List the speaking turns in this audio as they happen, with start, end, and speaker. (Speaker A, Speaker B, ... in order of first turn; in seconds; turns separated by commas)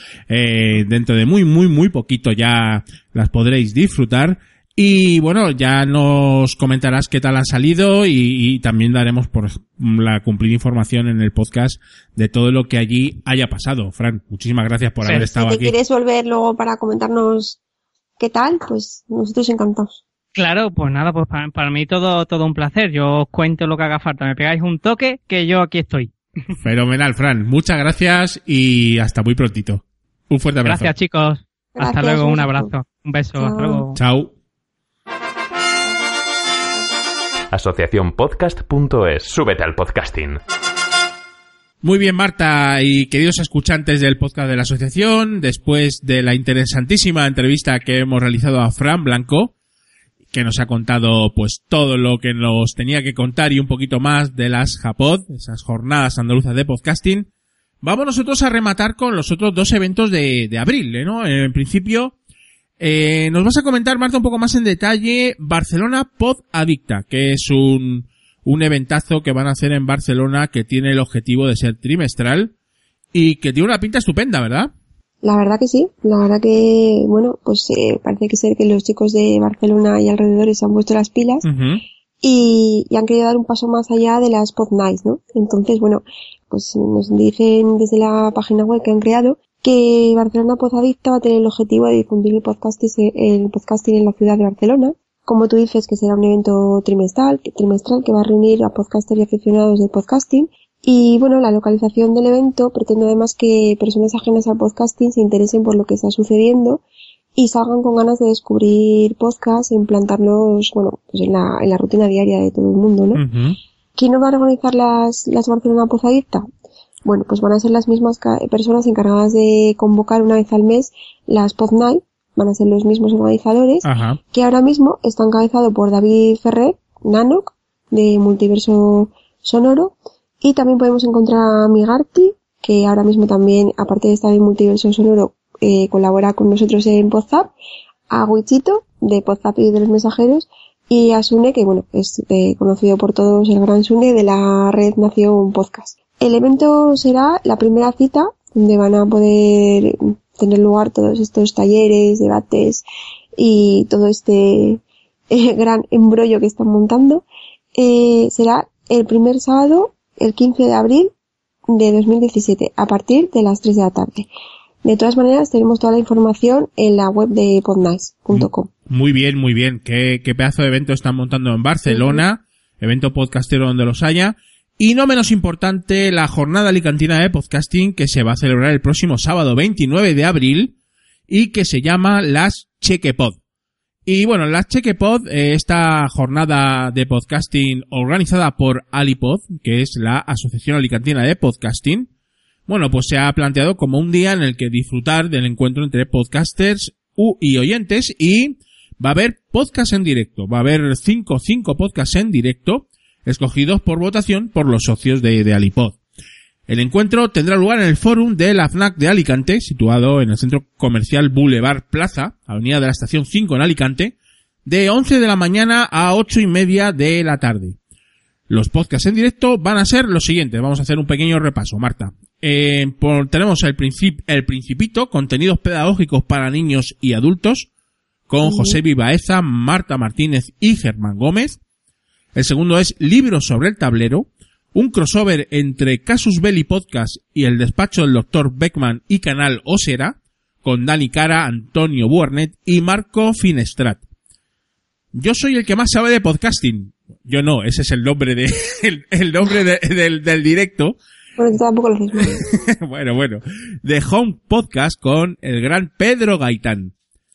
Speaker A: 0.3-15.7, Speaker B: 15.1-17.6, Speaker B: 18.2-20.0, Speaker C: 20.3-26.1, Speaker A: 26.6-30.9, Speaker C: 30.6-34.0, Speaker B: 31.7-32.7, Speaker B: 33.4-33.8, Speaker A: 33.9-34.3, Speaker D: 37.5-40.4, Speaker A: 41.8-49.5, Speaker A: 50.3-57.3, Speaker A: 57.8-62.1, Speaker A: 62.8-72.5, Speaker A: 73.1-74.7, Speaker B: 75.2-81.4, Speaker A: 81.4-81.8, Speaker B: 82.2-106.8, Speaker B: 107.3-113.2, Speaker A: 113.1-113.6, Speaker B: 114.0-116.5, Speaker B: 117.0-137.5, Speaker A: 123.8-124.2, Speaker B: 138.1-152.8, Speaker B: 153.3-161.1, Speaker B: 161.7-164.3, Speaker B: 164.8-168.7, Speaker A: 168.3-180.7, Speaker B: 171.9-172.2, Speaker A: 181.3-183.4, Speaker A: 184.1-192.1, Speaker A: 192.7-205.9, Speaker A: 206.7-214.1, Speaker A: 214.7-217.8, Speaker A: 218.5-227.7, Speaker A: 228.3-231.6, Speaker B: 228.4-228.8, Speaker A: 232.3-244.0, Speaker A: 245.1-250.9, Speaker B: 251.4-252.4, Speaker A: 252.4-256.9